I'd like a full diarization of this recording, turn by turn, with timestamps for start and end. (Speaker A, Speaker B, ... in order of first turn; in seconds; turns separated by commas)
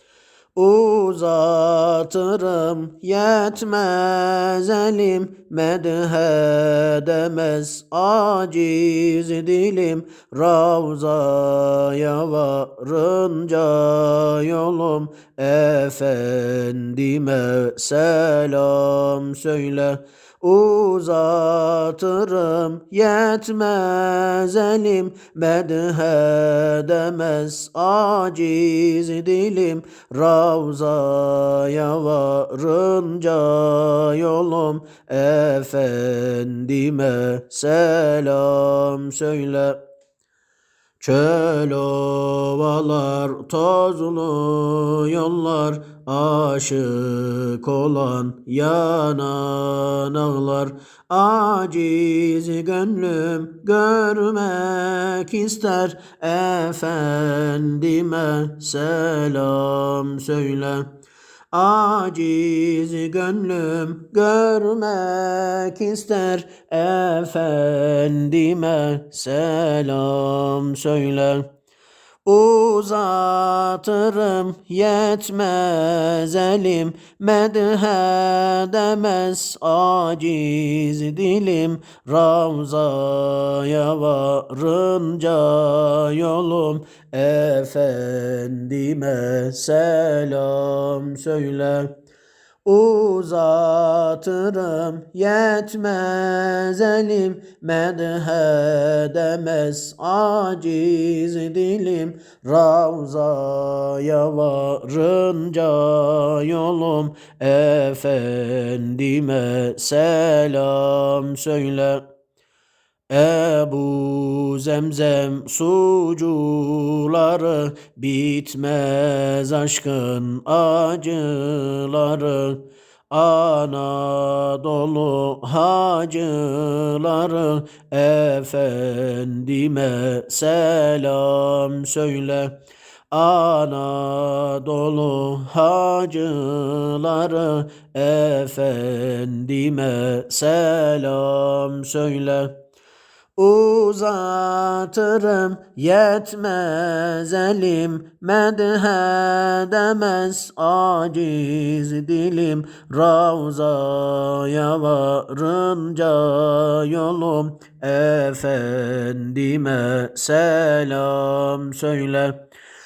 Speaker A: 0.6-39.8, Speaker A: 41.0-60.9, Speaker A: 61.5-71.5, Speaker A: 72.3-91.9, Speaker A: 92.7-112.1, Speaker A: 113.1-132.6, Speaker A: 133.1-142.6, Speaker A: 143.4-162.4